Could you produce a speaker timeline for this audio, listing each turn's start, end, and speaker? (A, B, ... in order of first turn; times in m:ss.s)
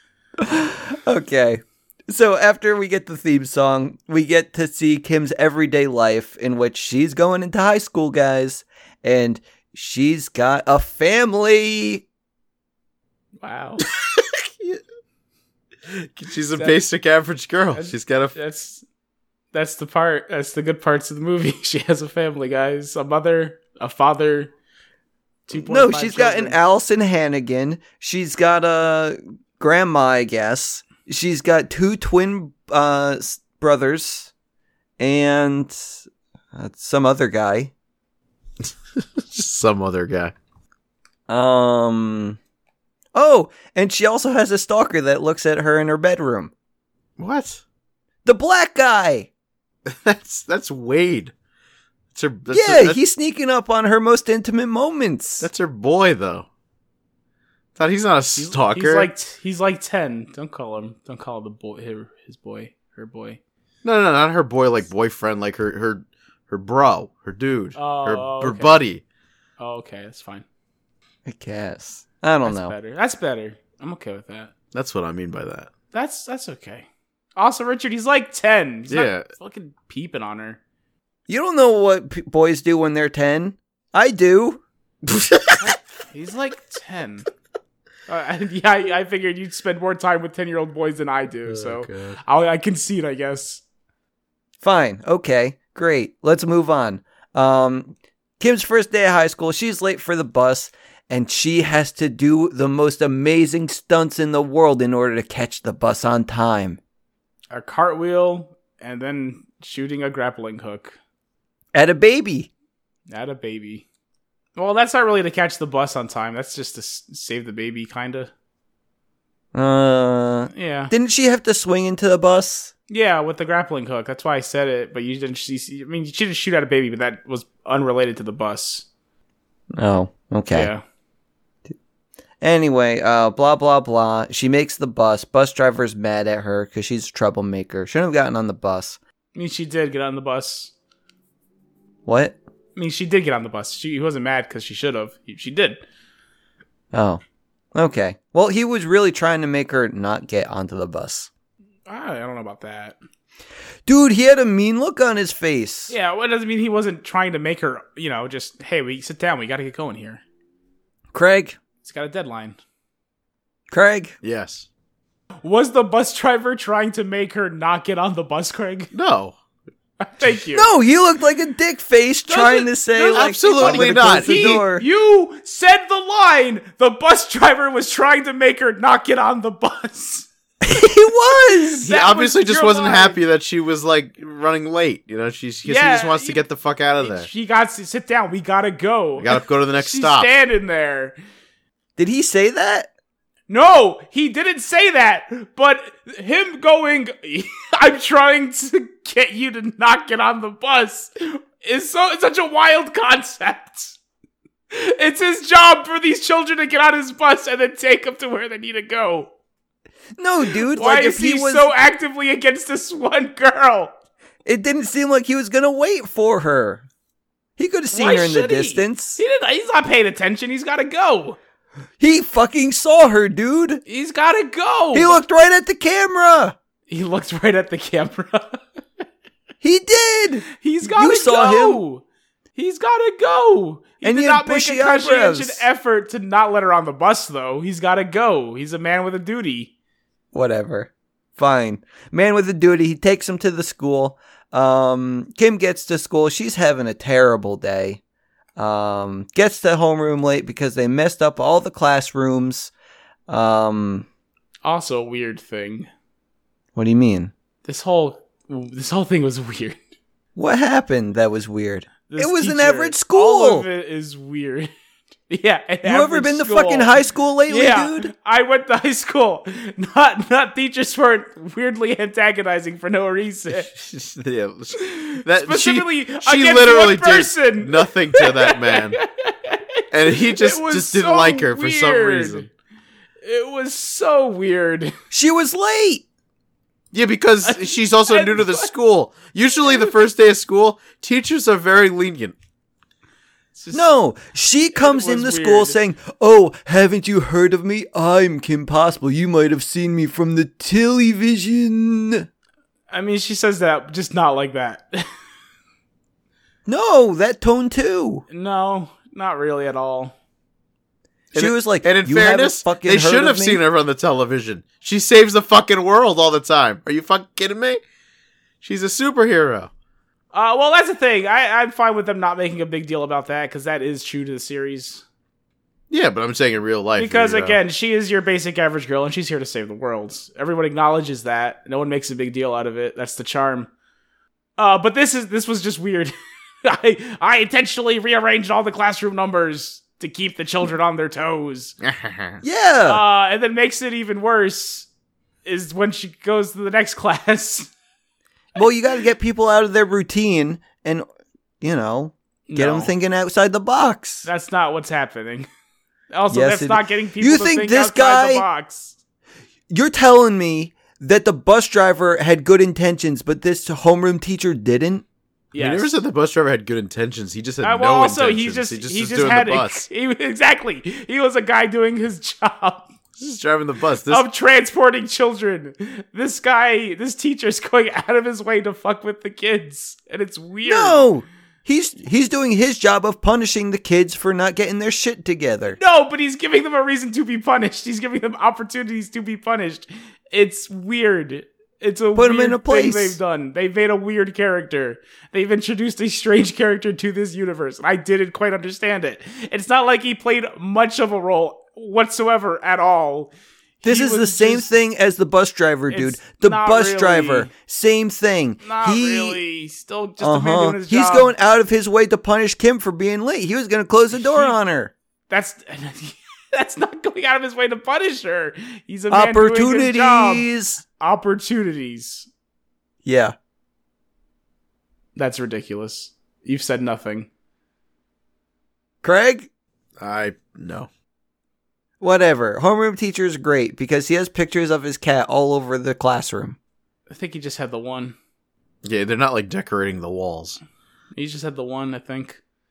0:00.4-0:12.0 A
0:13.4-0:13.8 B
0:14.2-0:14.8 C
0:16.0-0:18.4 C
0:17.8-0:18.8 B
0:19.5-0:24.5 B
0:25.5-0:26.6 B
0:25.5-0:34.3 A
0:35.0-0:35.9 A
0:36.5-0:37.7 A
0:39.2-0:40.3 C
0:41.3-0:42.4 A
0:43.1-0:46.5 A
0:47.2-0:47.6 C
0:48.2-0:49.3 A
0:49.9-0:51.3 C
0:52.1-0:53.0 C
0:52.5-0:55.4 A
0:55.4-0:56.4 C
0:57.8-0:59.1 C
0:58.4-1:03.4 B
1:03.8-1:09.0 C
1:07.8-1:08.8 B
1:09.6-1:10.4 B
1:11.2-1:12.8 A
1:12.4-1:14.5 B
1:14.7-1:15.7 C
1:15.9-1:20.6 B
1:18.9-1:19.3 C
1:21.3-1:24.6 A
1:25.1-1:25.6 C
1:25.6-1:27.2 B
1:28.1-1:33.6 B
1:31.5-1:32.2 C
1:34.6-1:46.8 A
1:47.5-1:51.0 B
1:51.7-1:52.5 A
1:53.1-1:53.8 B
1:54.6-1:58.3 B
1:59.5-2:02.7 A
2:00.5-2:00.9 B
2:02.9-2:08.9 B
2:09.8-2:10.7 A
2:10.5-2:10.8 B
2:12.4-2:19.0 A
2:19.3-2:20.7 B
2:22.1-2:22.4 A
2:22.8-2:25.8 B
2:26.9-2:27.2 A
2:27.7-2:31.3 A
2:31.9-2:33.0 B
2:33.9-2:35.9 A
2:35.9-2:40.2 B
2:41.1-2:41.6 A
2:41.8-2:42.6 B
2:43.7-2:44.1 A
2:44.2-2:44.6 C
2:45.4-2:48.9 B
2:48.9-2:49.4 C
2:50.0-2:50.7 B
2:50.5-2:54.8 A
2:52.3-3:00.3 B
2:53.1-2:54.3 C
3:00.6-3:01.9 A
3:01.8-3:03.2 B
3:01.8-3:07.3 C
3:05.6-3:06.4 B
3:07.0-3:11.2 B
3:09.2-3:10.3 C
3:12.0-3:12.9 A
3:13.5-3:24.0 B
3:24.7-3:29.3 B
3:30.2-3:31.7 A
3:30.7-3:33.9 B
3:34.4-3:36.8 A
3:37.6-3:39.2 A
3:37.9-3:41.4 B
3:42.0-3:43.8 A
3:43.9-3:45.2 B
3:44.9-3:46.6 A
3:46.9-3:48.6 B
3:49.6-3:51.8 A
3:50.6-3:52.0 B
3:52.6-3:59.7 B
3:54.0-3:55.6 A
4:00.3-4:08.0 A
4:08.6-4:12.7 A
4:13.3-4:14.1 A
4:14.6-4:15.9 B
4:16.7-4:17.3 A
4:17.6-4:19.8 B
4:20.4-4:23.7 A
4:22.1-4:24.7 B
4:25.3-4:26.9 B
4:25.8-4:28.1 A
4:27.5-4:33.7 B
4:33.7-4:39.0 C
4:34.8-4:42.5 B
4:39.9-4:42.5 C
4:43.2-4:44.9 B
4:45.1-4:46.0 A
4:46.9-4:52.3 C
4:47.4-4:48.7 B
4:53.6-4:53.9 B
4:53.7-5:02.3 A
4:54.7-4:55.8 B
5:02.9-5:05.0 B
5:06.6-5:08.2 A
5:08.3-5:10.1 B
5:11.3-5:17.8 C
5:11.4-5:13.6 A
5:18.6-5:19.7 C
5:20.3-5:25.0 B
5:25.9-5:27.6 C
5:27.0-5:33.7 B
5:34.6-5:36.1 B
5:36.6-5:41.8 B
5:41.9-5:42.4 C
5:42.4-5:43.0 A
5:42.9-5:44.9 B
5:45.4-5:47.7 B
5:48.6-5:51.0 A
5:51.6-5:54.2 A
5:52.5-5:52.9 B
5:54.2-5:55.5 B
5:56.1-5:58.9 B
5:56.3-5:58.5 A
5:59.7-6:05.0 A
6:05.5-6:05.9 B
6:05.6-6:09.8 C
6:07.6-6:12.9 B
6:13.2-6:14.2 C
6:14.1-6:21.0 B
6:20.6-6:25.8 A
6:25.8-6:44.7 B
6:32.1-6:33.2 A
6:43.8-6:49.4 A
6:45.9-6:47.5 B
6:48.6-6:51.3 B
6:50.2-6:54.9 A
6:54.1-6:54.6 B
6:55.3-7:02.3 B
6:59.1-7:00.8 A
7:03.0-7:03.4 A
7:05.2-7:07.3 B
7:09.0-7:09.5 A
7:10.0-7:10.9 C
7:12.0-7:16.6 A
7:17.1-7:18.2 B
7:18.8-7:20.6 C
7:21.1-7:22.4 B